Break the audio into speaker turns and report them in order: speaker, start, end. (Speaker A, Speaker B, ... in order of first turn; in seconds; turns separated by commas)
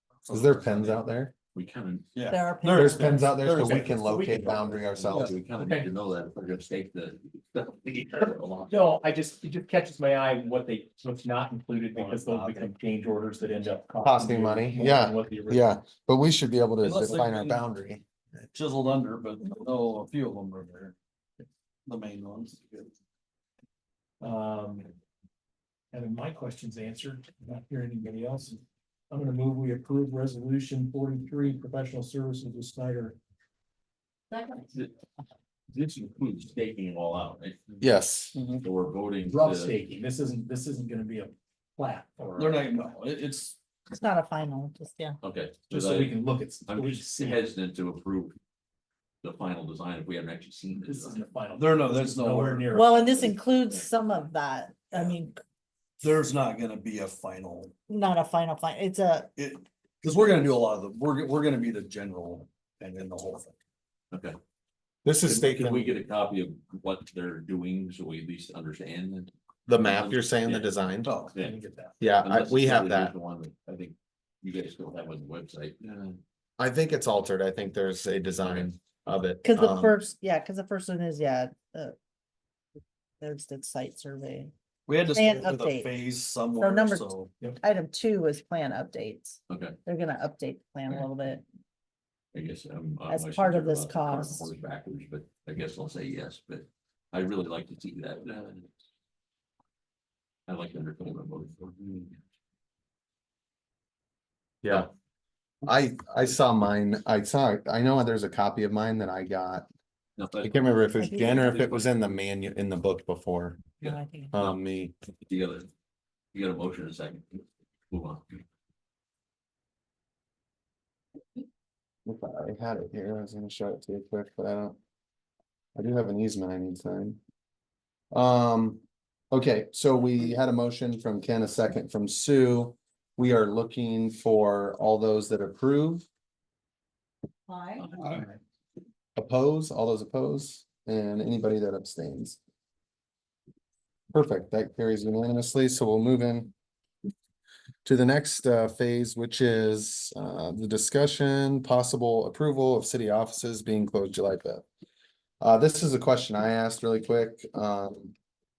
Speaker A: 0.2-1.0, Speaker B: 0.3-1.3, Speaker C: 1.5-2.1, Speaker A: 2.1-4.2, Speaker D: 2.3-3.5, Speaker B: 2.7-5.3, Speaker E: 3.6-4.7, Speaker C: 4.9-8.8, Speaker E: 5.6-5.9, Speaker E: 8.7-15.7, Speaker A: 11.9-12.7, Speaker B: 14.0-18.0, Speaker A: 16.8-17.7, Speaker A: 18.5-20.9, Speaker A: 21.9-22.9, Speaker E: 24.2-24.9, Speaker E: 25.9-33.1, Speaker D: 34.3-34.7, Speaker C: 35.7-37.9, Speaker B: 37.8-38.4, Speaker D: 38.3-38.6, Speaker C: 38.6-39.7, Speaker E: 39.2-42.8, Speaker A: 42.4-43.6, Speaker D: 43.9-45.2, Speaker C: 45.2-48.4, Speaker E: 45.7-47.5, Speaker C: 49.2-51.2, Speaker E: 50.9-53.4, Speaker A: 51.5-52.7, Speaker D: 52.7-55.4, Speaker A: 56.0-57.7, Speaker D: 57.9-59.3, Speaker A: 59.4-63.5, Speaker C: 64.1-64.4, Speaker B: 65.0-66.0, Speaker C: 65.2-71.6, Speaker B: 69.7-71.2, Speaker A: 71.0-71.3, Speaker E: 71.4-72.0, Speaker B: 72.0-73.1, Speaker C: 72.2-76.2, Speaker B: 76.6-80.0, Speaker C: 78.4-79.0, Speaker D: 79.4-81.9, Speaker D: 83.2-84.5, Speaker A: 84.9-87.3, Speaker D: 85.0-91.4, Speaker C: 89.5-89.8, Speaker C: 92.3-98.7, Speaker D: 93.1-94.5, Speaker C: 100.5-102.1, Speaker B: 104.6-104.9, Speaker B: 105.6-109.7, Speaker C: 110.2-111.9, Speaker B: 110.4-113.6, Speaker D: 111.0-111.4, Speaker C: 113.8-114.5, Speaker D: 113.8-114.3, Speaker B: 114.3-114.9, Speaker C: 115.2-115.7, Speaker C: 116.3-118.4, Speaker B: 122.0-124.8, Speaker B: 125.8-127.2, Speaker B: 128.1-136.1, Speaker D: 137.5-137.9, Speaker A: 137.9-138.2, Speaker B: 139.2-142.4, Speaker B: 144.1-146.5, Speaker B: 147.8-154.6, Speaker B: 155.4-158.1